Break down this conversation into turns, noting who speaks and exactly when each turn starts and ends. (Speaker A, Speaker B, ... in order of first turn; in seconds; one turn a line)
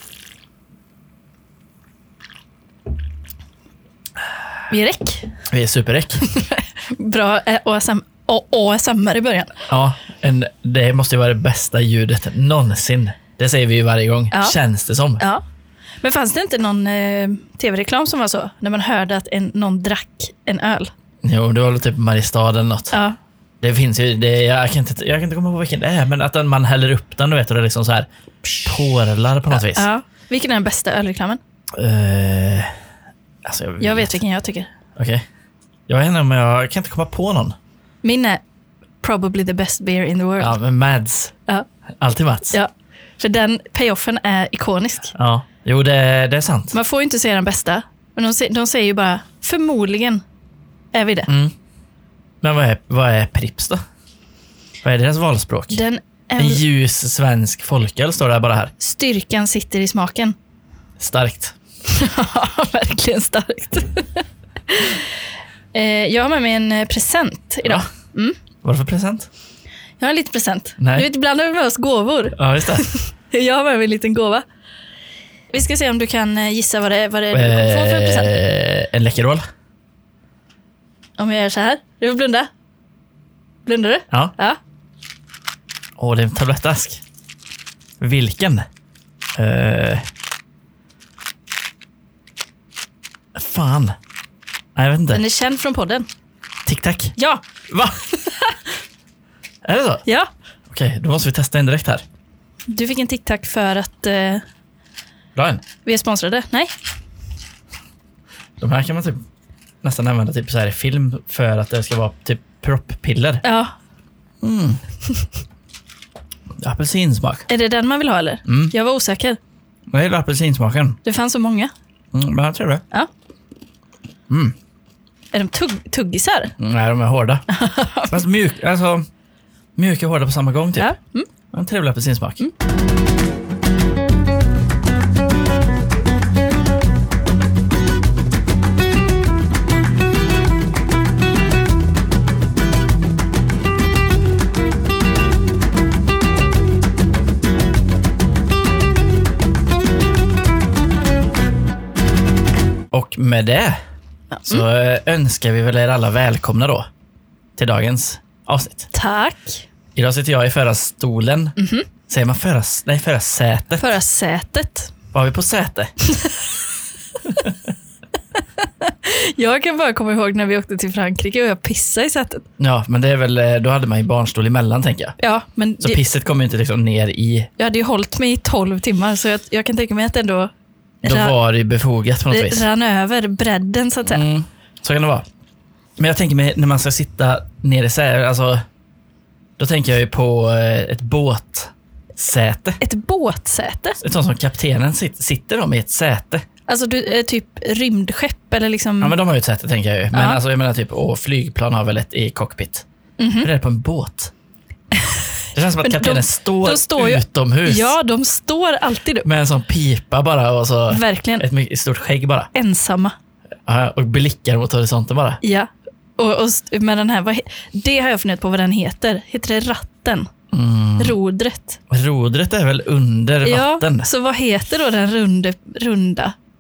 Speaker A: 4.7-5.3
Speaker B: 5.5-6.2
Speaker A: 6.2-9.6
Speaker B: 9.7-15.2
Speaker A: 16.0-20.9
Speaker B: 21.2-23.0
Speaker A: 22.9-23.2
Speaker B: 23.6-28.1
Speaker B: 28.6-29.9
Speaker A: 29.5-31.4
Speaker B: 31.8-32.7
Speaker B: 33.4-34.2
Speaker A: 33.8-34.7
Speaker B: 35.0-35.2
Speaker B: 35.9-37.6
Speaker A: 38.0-38.4
Speaker A: 39.0-40.5
Speaker B: 40.4-41.4
Speaker B: 42.0-42.6
Speaker A: 42.5-45.1
Speaker B: 45.1-46.7
Speaker A: 46.7-50.2
Speaker A: 50.9-51.3
Speaker B: 51.3-51.5
Speaker B: 52.4-53.8
Speaker B: 54.8-55.8
Speaker A: 55.7-56.6
Speaker B: 56.4-58.7
Speaker A: 58.8-60.4
Speaker B: 61.0-61.5
Speaker A: 61.9-65.1
Speaker A: 65.7-68.4
Speaker B: 68.6-69.3
Speaker A: 70.0-74.5
Speaker B: 70.8-71.1
Speaker B: 72.3-72.8
Speaker A: 75.5-78.3
Speaker B: 77.3-79.4
Speaker A: 81.2-82.5
Speaker A: 83.7-84.6
Speaker B: 86.0-87.0
Speaker B: 88.0-88.7
Speaker B: 89.4-90.0
Speaker B: 93.3-94.0
Speaker B: 94.8-95.2
Speaker A: 95.1-96.1
Speaker B: 96.7-97.2
Speaker A: 97.2-97.5
Speaker B: 97.7-98.0
Speaker A: 98.0-98.6
Speaker B: 99.6-100.0
Speaker B: 100.7-102.0
Speaker A: 102.7-104.4
Speaker B: 105.3-105.6
Speaker A: 105.8-106.7
Speaker B: 108.6-109.2
Speaker B: 109.8-113.4
Speaker A: 113.4-113.7
Speaker B: 114.4-114.8
Speaker B: 116.6-117.5
Speaker A: 117.5-119.4
Speaker B: 118.5-118.7
Speaker B: 119.9-121.0
Speaker A: 121.0-121.7
Speaker B: 122.1-122.8
Speaker B: 124.3-124.5
Speaker A: 125.3-126.5
Speaker B: 126.6-127.4
Speaker A: 127.5-128.2
Speaker B: 128.1-129.1
Speaker B: 129.8-130.9
Speaker A: 130.8-131.3
Speaker B: 131.5-132.5
Speaker B: 152.9-153.8
Speaker A: 154.3-154.6
Speaker B: 154.5-156.8
Speaker B: 157.6-158.9
Speaker A: 158.9-159.6
Speaker B: 160.0-161.6
Speaker A: 161.6-161.9
Speaker B: 162.1-163.8
Speaker A: 163.8-164.9
Speaker B: 165.1-165.9
Speaker A: 166.0-166.5
Speaker B: 167.3-167.6
Speaker A: 168.6-172.4
Speaker B: 172.6-175.2
Speaker A: 175.2-176.0
Speaker B: 175.8-177.5
Speaker A: 177.6-180.5
Speaker A: 181.0-181.4
Speaker B: 181.0-182.7
Speaker A: 182.3-184.2
Speaker B: 184.1-185.3
Speaker B: 186.0-188.6
Speaker B: 189.6-192.8
Speaker A: 192.8-194.0
Speaker B: 194.0-196.4
Speaker A: 196.7-199.2
Speaker B: 199.0-202.8
Speaker A: 200.1-200.4
Speaker A: 203.2-203.5
Speaker B: 203.4-204.3
Speaker A: 204.9-205.2
Speaker B: 205.5-207.9
Speaker A: 205.8-209.3
Speaker B: 209.2-212.5
Speaker A: 210.9-211.5
Speaker A: 212.5-213.2
Speaker B: 213.7-215.4
Speaker A: 215.4-220.3
Speaker B: 220.5-221.2
Speaker A: 221.0-221.8
Speaker B: 221.9-224.1
Speaker A: 223.4-226.3